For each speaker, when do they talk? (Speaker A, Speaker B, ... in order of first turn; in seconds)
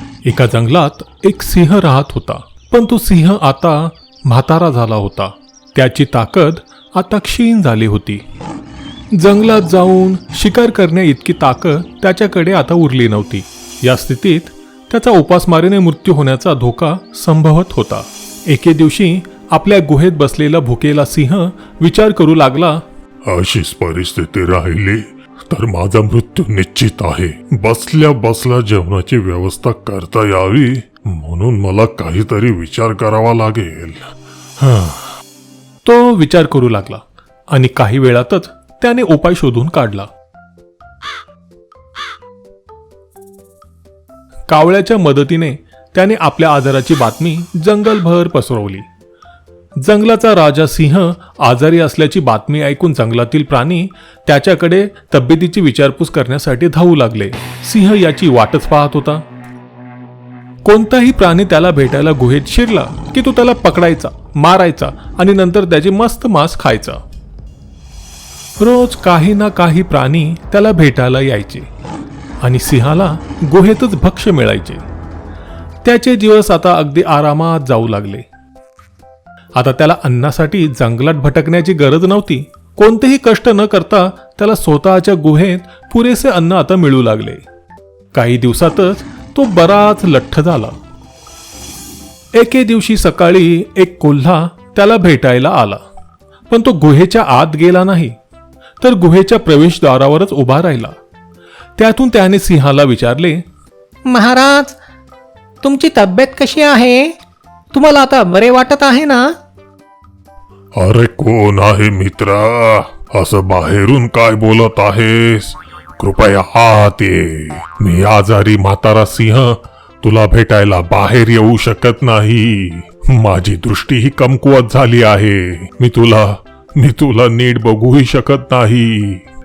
Speaker A: 0.3-8.2, 9.1-22.8, 35.9-40.1, 44.5-48.9, 49.8-59.2, 60.6-67.0, 68.6-71.7, 72.4-74.8, 75.8-78.3, 79.6-87.4, 88.1-90.8, 92.3-95.8, 96.5-98.2, 98.8-101.0, 101.8-103.4, 123.3-126.1, 126.9-128.8
Speaker B: 23.3-25.0, 25.5-30.7, 31.2-33.9, 110.8-115.4, 116.0-119.4, 120.0-122.6, 123.3-125.3, 127.2-128.7
Speaker C: 104.1-104.8, 105.6-107.2, 107.7-109.4